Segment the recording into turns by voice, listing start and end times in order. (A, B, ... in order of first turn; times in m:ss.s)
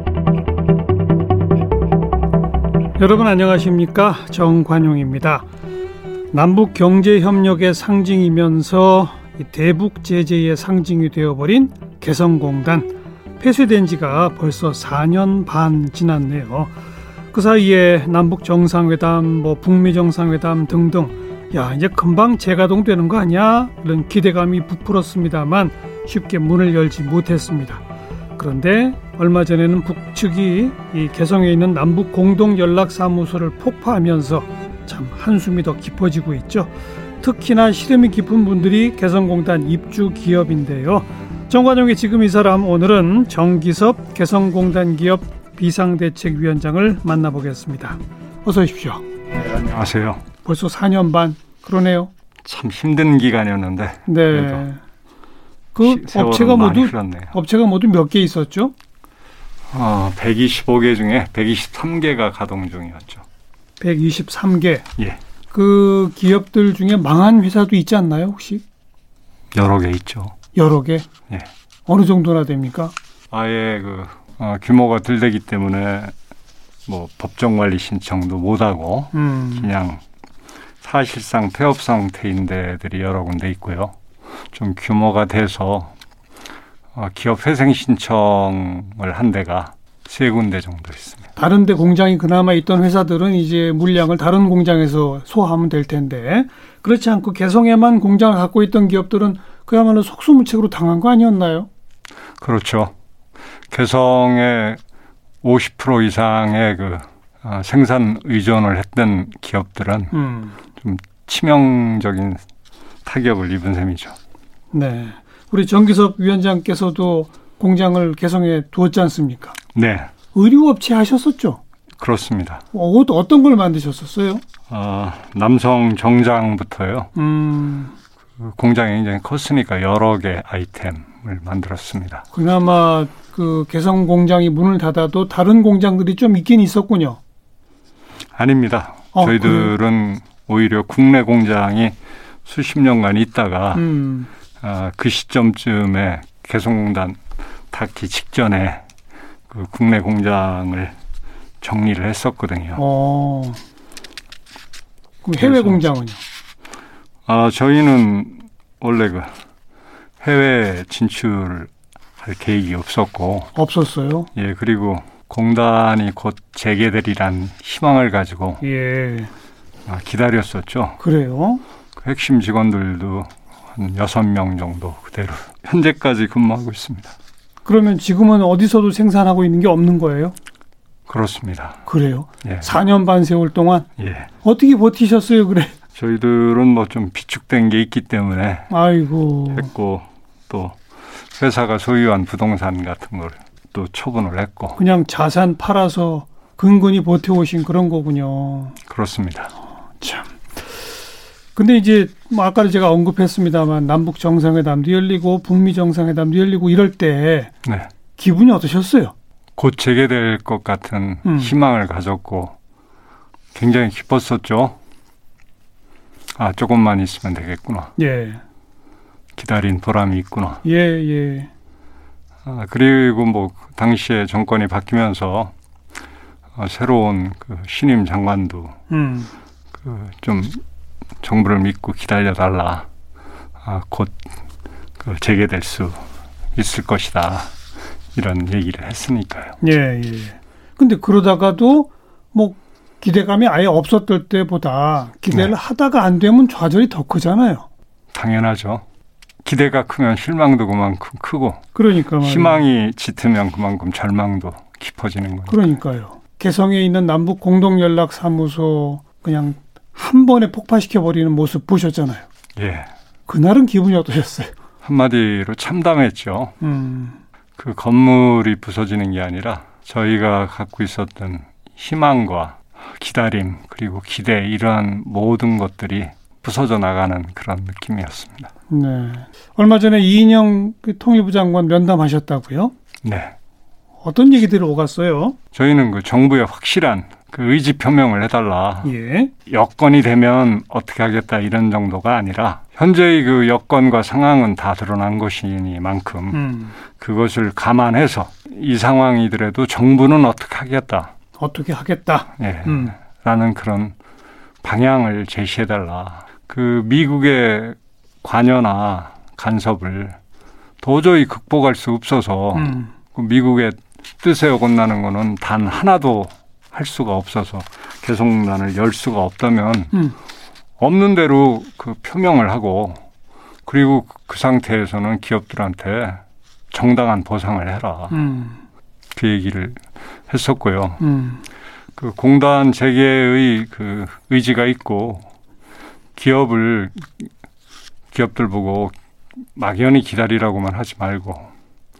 0:03.0-0:05.4 A
0:06.3-0:16.7 A
0:17.3-0:27.8 A
0:28.4-0:36.7 A
0:37.2-0:49.0 A
0:49.4-0:50.2 B
0:50.4-0:52.1 A
0:52.4-0:54.6 B
0:54.1-0:54.8 A
0:55.8-0:58.7 A
0:55.8-0:57.3 B
0:59.7-1:03.2 B
1:03.8-1:04.9 A
1:05.5-1:08.6 A
1:09.5-1:10.4 B
1:10.6-1:11.1 A
1:11.9-1:12.9 A
1:13.3-1:16.1 B
1:16.9-1:20.0 B
1:19.1-1:19.7 A
1:20.8-1:24.0 B
1:24.5-1:25.9 B
1:26.9-1:31.3 B
1:31.4-1:41.7 A
1:42.4-1:42.9 B
1:43.7-1:44.8 B
1:45.4-1:50.1 B
1:50.1-1:50.6 A
1:50.8-1:52.4 B
1:53.0-1:54.2 B
1:54.7-1:59.6 A
1:59.8-2:00.1 B
2:00.3-2:01.6 A
2:02.0-2:02.6 B
2:02.7-2:04.4 A
2:04.7-2:07.1 B
2:07.2-2:08.0 A
2:08.4-2:12.2 B
2:12.3-2:17.2 A
2:18.4-2:23.9 B
2:19.1-2:19.7 A
2:23.8-2:24.3 A
2:24.6-2:28.8 B
2:29.5-2:31.0 B
2:31.6-2:32.8 B
2:32.8-2:33.6 A
2:35.2-2:36.2 A
2:35.4-2:35.8 B
2:37.3-2:39.3 B
2:40.2-2:43.5 B
2:43.6-2:44.3 A
2:44.4-2:48.6 B
2:48.6-2:49.3 A
2:49.9-2:51.0 B
2:51.0-2:51.6 A
2:52.0-2:57.1 B
2:57.6-3:00.4 A
3:01.1-3:01.8 B
3:01.9-3:03.9 A
3:02.4-3:02.7 B
3:04.0-3:04.3 B
3:04.4-3:05.7 A
3:06.0-3:08.7 B
3:08.7-3:09.7 A
3:09.5-3:10.8 B
3:11.3-3:14.8 B
3:14.8-3:18.8 A
3:18.9-3:19.5 B
3:20.0-3:20.3 A
3:21.6-3:27.5 A
3:27.6-3:27.9 B
3:28.2-3:29.1 A
3:29.6-3:32.6 B
3:31.2-3:31.5 A
3:33.5-3:34.8 B
3:36.4-3:37.9 B
3:38.0-3:38.4 A
3:39.4-3:40.6 B
3:40.6-3:41.5 A
3:42.4-3:45.5 B
3:46.6-3:48.8 B
3:48.9-3:49.3 A
3:49.8-3:50.6 B
3:51.2-3:52.9 B
3:53.6-3:54.3 B
3:55.0-3:56.0 B
3:56.6-3:57.5 B
3:58.2-3:59.6 B
3:59.6-4:07.7 A
4:08.1-4:08.8 B
4:09.4-4:11.7 B
4:11.8-4:12.6 A
4:12.2-4:15.7 B
4:15.5-4:22.3 A
4:22.6-4:22.9 B
4:23.3-4:24.5 A
4:24.8-4:26.6 B
4:26.6-4:27.2 A
4:27.6-4:38.5 B
4:38.7-4:42.7 A
4:43.0-4:43.4 B
4:44.0-4:45.4 A
4:45.5-4:48.9 B
4:48.8-4:49.3 A
4:49.5-5:01.1 B
4:56.3-4:56.8 A
5:01.4-5:03.0 A
5:02.4-5:04.0 B
5:04.6-5:10.2 B
5:10.8-5:19.9 B
5:12.6-5:12.9 A
5:20.8-5:23.0 B
5:23.7-5:28.2 B
5:28.1-5:28.6 A
5:29.1-5:31.0 B
5:31.0-5:31.4 A
5:32.0-5:35.3 B
5:36.2-5:37.3 B
5:38.1-5:38.9 B
5:39.6-5:41.5 B